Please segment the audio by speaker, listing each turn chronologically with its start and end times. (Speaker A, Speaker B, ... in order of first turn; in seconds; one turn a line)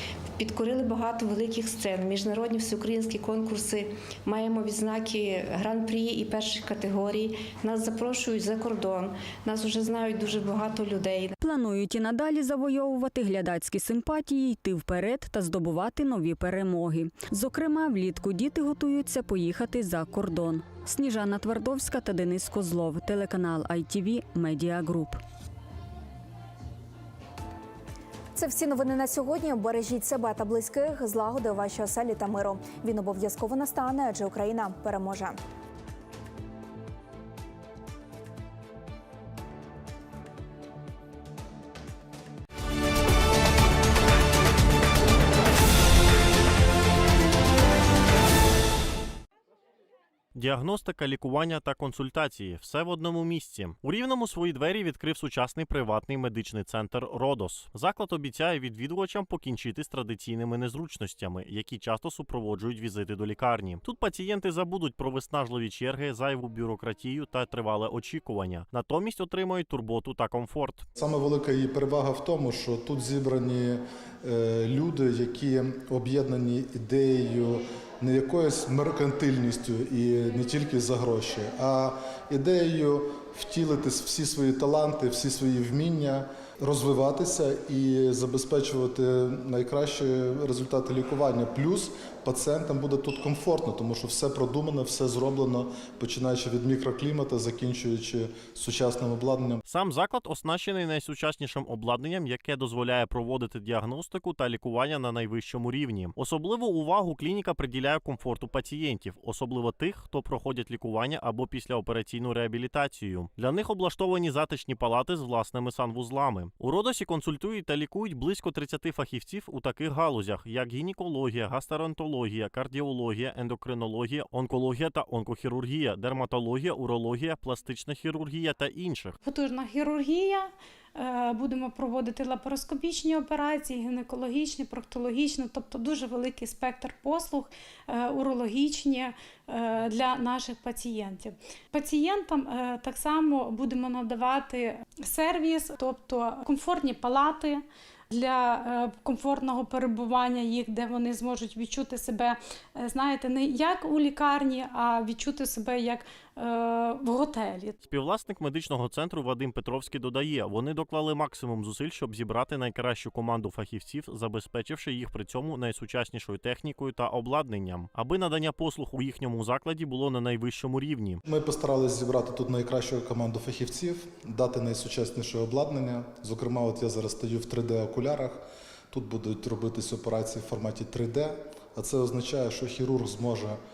Speaker A: 0.4-11.3
Speaker B: 11.4-25.2
Speaker C: 28.4-35.4
Speaker D: 50.4-70.9
Speaker E: 71.0-99.6
Speaker D: 99.7-129.2
Speaker F: 129.2-157.8
Speaker D: 157.9-171.2
Speaker E: 171.2-183.6